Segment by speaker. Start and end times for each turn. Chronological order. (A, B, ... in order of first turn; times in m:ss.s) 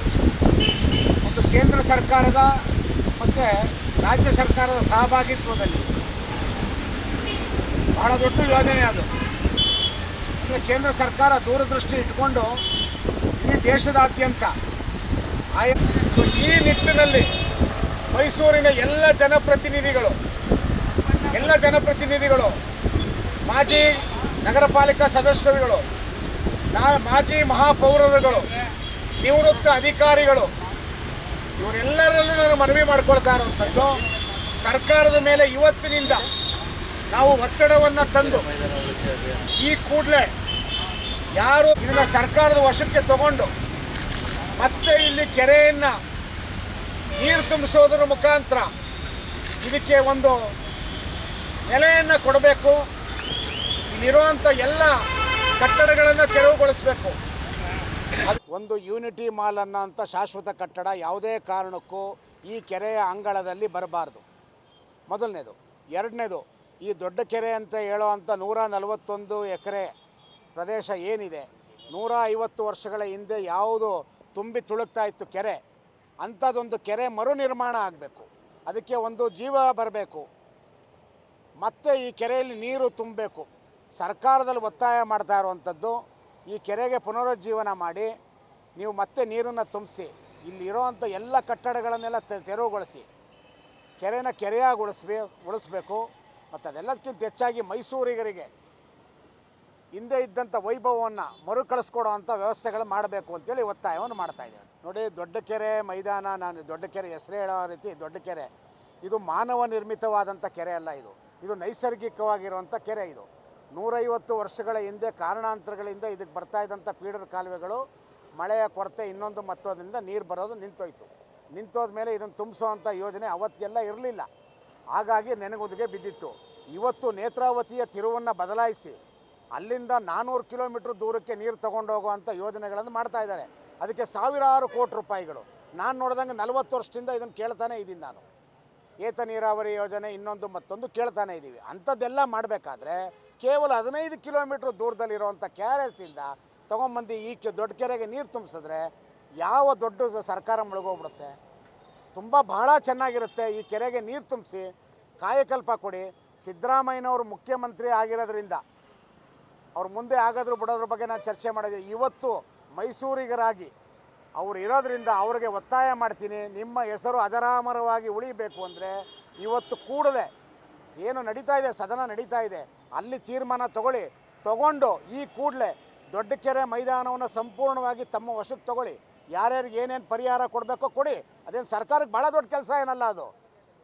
0:01.2-0:02.5 A
0:03.2-0:05.9 A
0:08.0-0:09.1 A
0:10.4-0:12.5 A
0:13.4-0:14.5 A
0:15.6-0:17.3 A
0:18.1-0:20.2 A
0:21.3-0:22.6 A
0:23.5-0:25.8 A
0:26.7-0:28.5 A
0:29.2-0:30.5 A
0:31.6-0:34.0 A
0:34.5-0:36.3 A
0:37.1-0:38.7 A
0:39.6-0:40.3 A
0:41.4-0:43.5 A
0:44.6-0:45.9 A
0:47.2-0:48.7 A
0:49.6-0:50.4 A
0:51.7-0:52.8 A
0:53.9-0:55.0 A
0:55.6-0:57.2 A
0:58.2-1:04.2 A
1:05.1-1:09.9 A
1:10.5-1:15.6 A
1:16.2-1:20.2 A
1:21.6-1:28.1 A
1:28.8-1:33.0 A
1:34.0-1:38.5 A
1:39.9-1:48.5 A
1:49.0-1:57.8 A
1:58.4-2:04.3 A
2:04.9-2:09.0 A
2:09.5-2:18.2 A
2:19.0-2:28.8 A
2:29.4-2:31.3 A
2:32.1-2:34.7 A
2:35.2-2:38.6 A
2:39.8-2:43.7 A
2:44.4-2:50.3 A
2:50.9-3:03.3 A